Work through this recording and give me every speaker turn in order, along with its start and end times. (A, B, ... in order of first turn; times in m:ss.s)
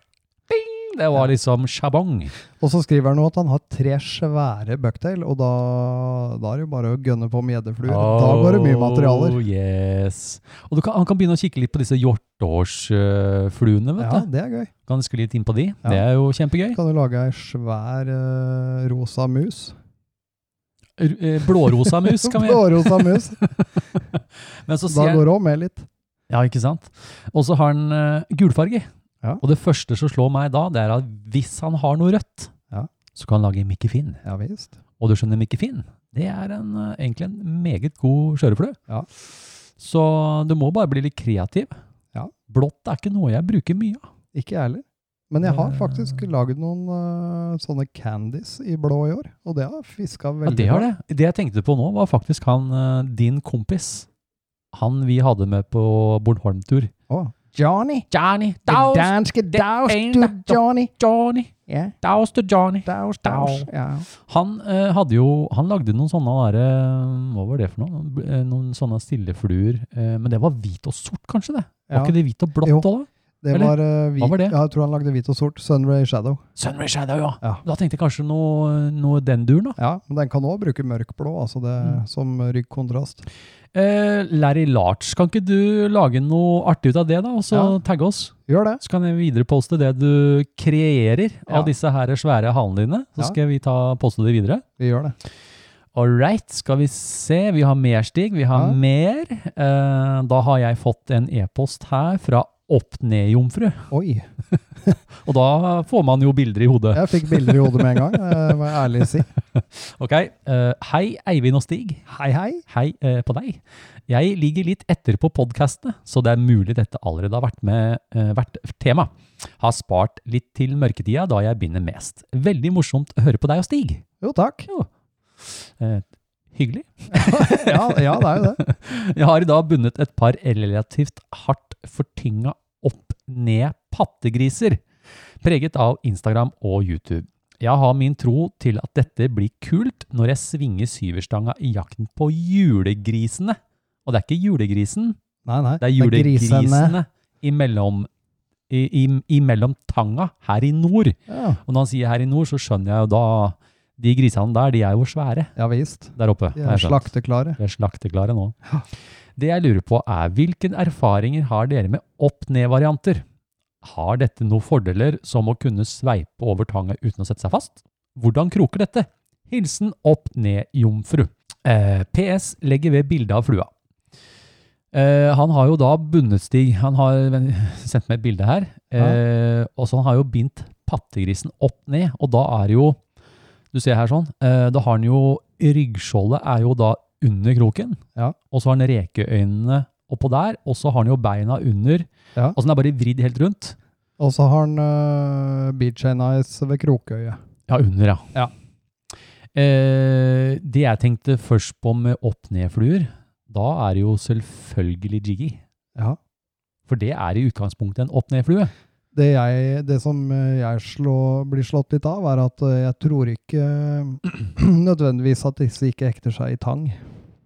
0:00.5-0:02.3 A
0:02.6-0:09.4 B
0:07.8-0:14.3 A
0:14.0-0:14.7 B
0:14.8-0:16.8 A
0:16.7-0:19.7 B
0:21.0-0:25.2 A
0:21.7-0:23.4 B
0:24.9-0:25.9 B
0:26.3-0:28.9 A
0:29.4-0:32.5 A
0:33.1-0:34.2 A
0:34.2-0:34.7 B
0:35.0-0:38.8 A
0:39.8-0:41.7 A
0:42.5-0:44.0 A
0:44.3-0:50.9 B
0:45.4-0:46.2 A
0:50.4-0:54.1 A
0:54.7-0:56.9 A
0:57.1-0:58.1 B
0:58.1-1:14.6 A
0:58.7-1:00.9 B
1:01.7-1:01.9 B
1:02.8-1:04.0 B
1:11.9-1:12.9 B
1:13.4-1:16.4 B
1:16.6-1:19.8 A
1:19.8-1:23.2 B
1:23.7-1:34.6 A
1:28.5-1:28.8 B
1:34.8-1:35.2 B
1:35.9-1:43.9 A
1:38.5-1:38.8 B
1:43.9-1:44.2 B
1:45.2-1:48.5 A
1:46.9-1:49.3 B
1:49.4-1:52.0 A
1:52.1-1:52.6 B
1:52.7-2:04.0 A
2:04.2-2:04.7 B
2:05.4-2:14.8 A
2:07.1-2:08.6 B
2:15.4-2:25.2 A
2:25.4-2:27.0 B
2:25.8-2:28.1 A
2:28.7-2:35.5 A
2:31.3-2:31.6 B
2:35.6-2:37.6 B
2:36.1-2:38.6 A
2:39.4-2:43.2 A
2:43.8-2:53.7 A
2:54.9-3:03.0 A
3:03.7-3:13.8 A
3:14.2-3:17.4 B
3:17.7-3:18.3 A
3:19.5-3:25.6 A
3:26.9-3:28.7 A
3:29.1-3:37.0 B